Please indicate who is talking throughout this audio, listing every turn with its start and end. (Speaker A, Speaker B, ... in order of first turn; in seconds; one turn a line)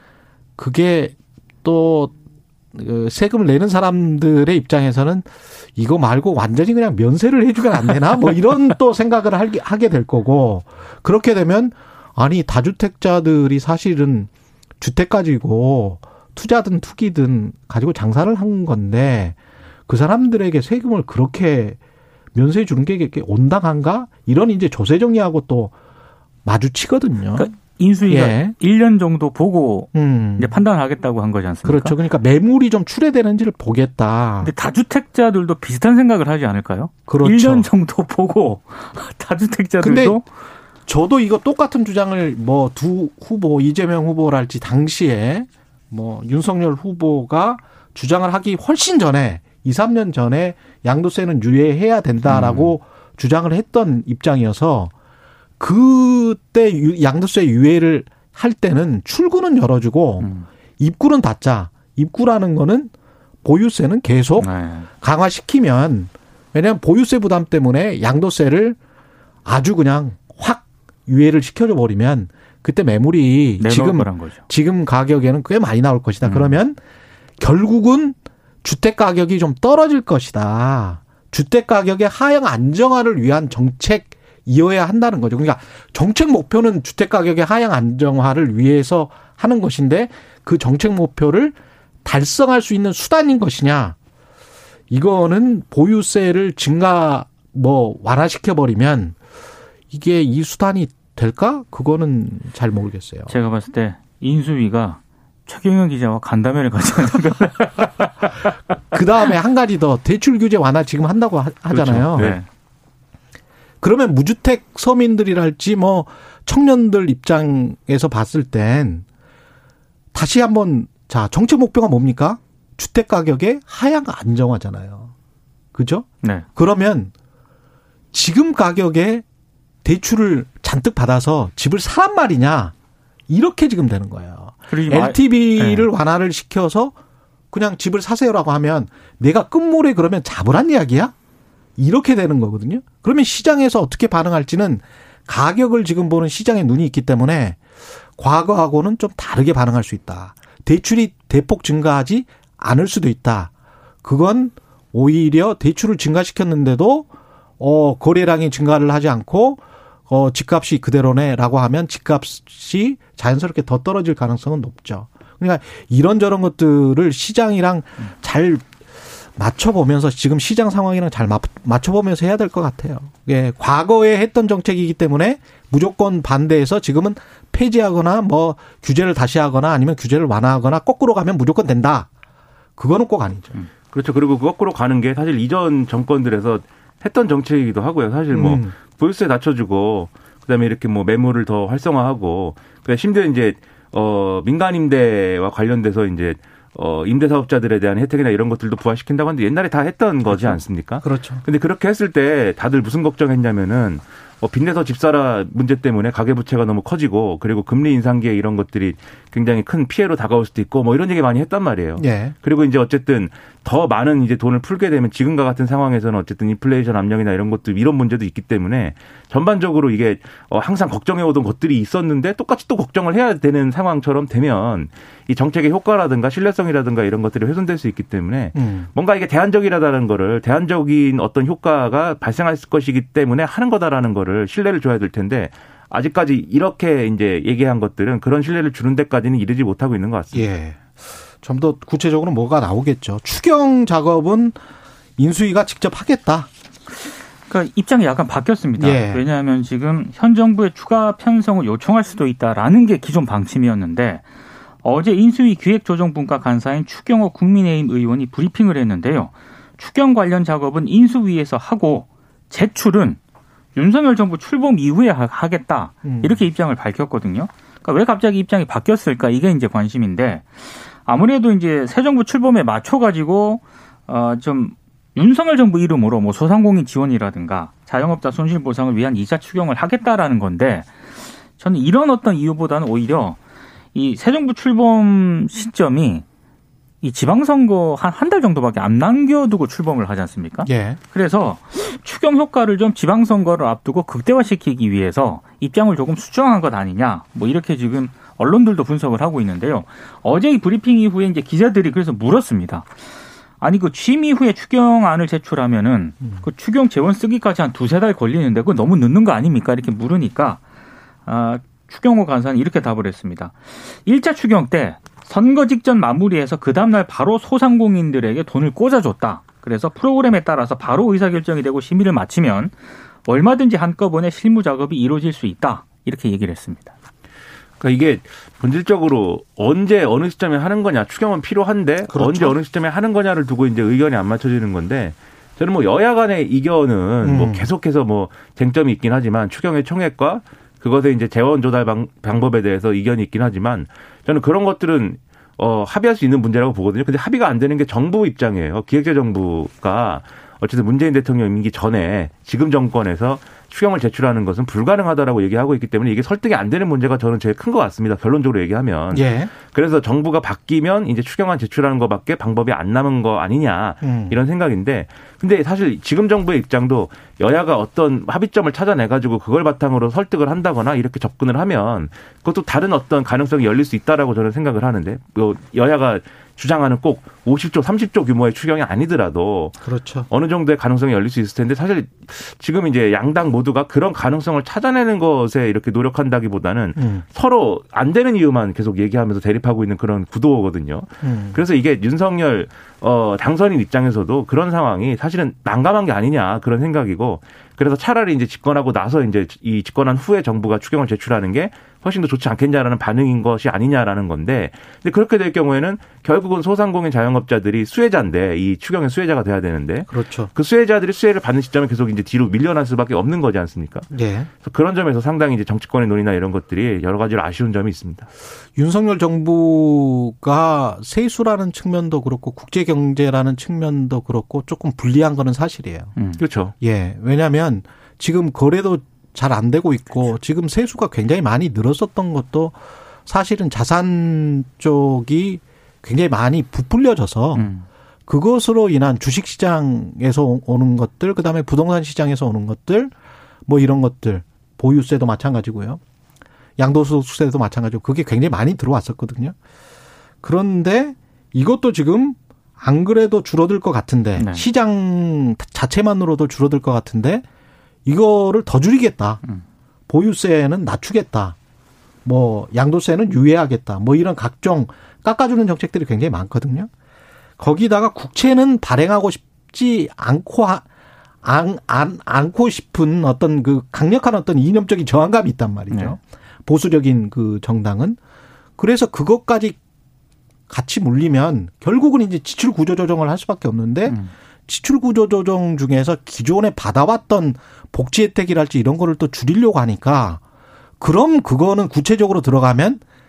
Speaker A: 0.6-2.1
Speaker A: 2.7-14.3
Speaker A: 14.8-19.4
Speaker A: 19.9-21.8
Speaker A: 22.3-25.7
Speaker A: 26.4-27.5
Speaker B: 27.4-31.9
Speaker A: 28.1-28.5
Speaker A: 29.9-30.5
Speaker A: 31.6-34.5
Speaker B: 34.4-40.2
Speaker A: 37.1-37.7
Speaker A: 39.8-40.2
Speaker A: 40.9-54.9
Speaker B: 52.2-52.7
Speaker A: 55.6-60.3
Speaker B: 60.2-60.5
Speaker A: 60.8-62.9
Speaker A: 63.4-64.5
Speaker B: 64.4-64.9
Speaker A: 65.0-68.8
Speaker A: 69.5-76.8
Speaker B: 73.6-74.4
Speaker B: 76.2-76.5
Speaker A: 77.4-94.0
Speaker A: 94.9-99.2
Speaker A: 99.9-103.3
Speaker B: 103.3-108.5
Speaker A: 108.9-112.3
Speaker C: 111.7-112.4
Speaker B: 112.2-112.4
Speaker A: 113.8-119.0
Speaker A: 120.1-125.1
Speaker A: 125.7-127.1
Speaker A: 128.1-129.2
Speaker A: 129.8-132.7
Speaker A: 133.3-136.9
Speaker B: 134.7-135.9
Speaker A: 137.5-141.1
Speaker A: 141.8-147.6
Speaker A: 148.2-153.5
Speaker A: 154.0-157.1
Speaker A: 157.6-168.7
Speaker A: 169.3-182.1
Speaker A: 182.8-183.5
Speaker C: 183.9-240.4
Speaker A: 188.3-188.7
Speaker A: 200.3-201.4
Speaker A: 212.0-212.3
Speaker A: 228.5-228.9
Speaker A: 240.3-244.6
Speaker A: 245.2-246.5
Speaker B: 247.5-254.2
Speaker A: 248.8-249.2
Speaker B: 254.8-263.2
Speaker B: 263.7-280.9
Speaker A: 266.0-266.4
Speaker B: 281.6-283.4
Speaker B: 283.9-286.2
Speaker B: 287.0-302.9
Speaker A: 290.6-291.0
Speaker B: 303.6-310.6
Speaker B: 311.2-322.7
Speaker B: 323.2-326.9
Speaker C: 327.8-379.8
Speaker A: 332.1-332.6
Speaker A: 337.2-337.7
Speaker A: 359.1-359.5
Speaker A: 364.0-364.4
Speaker A: 379.8-380.3
Speaker C: 380.3-414.1
Speaker A: 387.0-387.2
Speaker A: 391.2-391.6
Speaker A: 410.1-410.5
Speaker A: 414.1-414.5
Speaker C: 414.6-418.3
Speaker A: 418.8-426.1
Speaker C: 426.4-426.7
Speaker A: 426.8-437.7
Speaker B: 437.5-437.9
Speaker A: 438.3-443.1
Speaker A: 443.6-446.0
Speaker A: 446.8-449.5
Speaker A: 450.4-457.4
Speaker B: 454.4-454.6
Speaker A: 458.1-459.4
Speaker A: 460.1-461.6
Speaker A: 462.2-466.9
Speaker A: 467.6-470.8
Speaker A: 471.4-478.2
Speaker B: 475.9-476.1
Speaker A: 478.8-479.8
Speaker A: 480.7-490.4
Speaker B: 484.1-484.3
Speaker A: 491.0-493.0